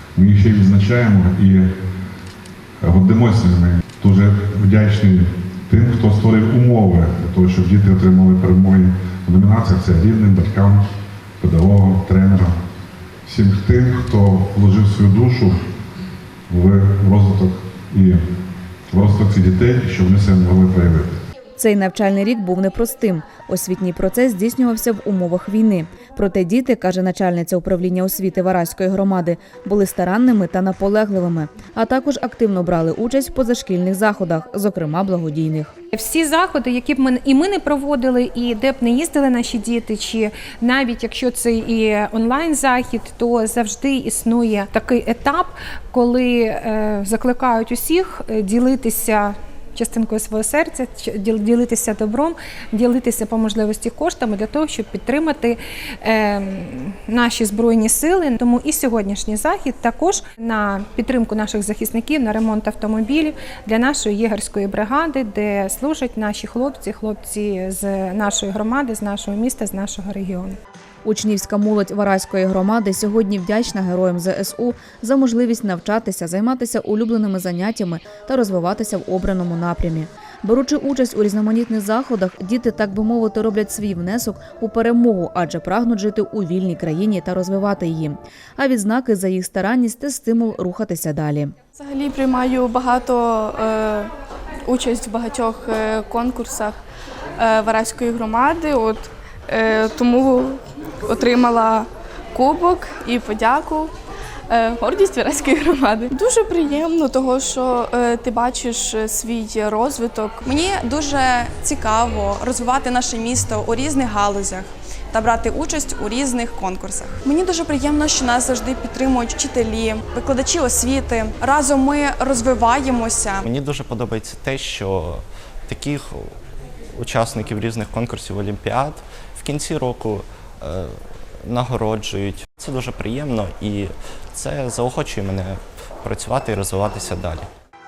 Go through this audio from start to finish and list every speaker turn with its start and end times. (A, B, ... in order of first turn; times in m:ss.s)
0:00.2-0:01.7 A
0:02.8-0:10.9 A
0:11.4-0:12.6 A
0:13.2-0:15.6 A
0:16.5-0:18.2 A
0:18.9-0:21.2 A
0:21.6-0:35.7 B
0:35.9-1:10.6 C
1:11.0-1:31.5 B
1:31.8-1:34.1 D
1:34.7-1:36.8 D
1:37.4-1:43.9 D
1:44.5-1:50.3 D
1:50.4-2:03.4 E
2:03.4-2:06.3 F
2:06.9-2:17.5 F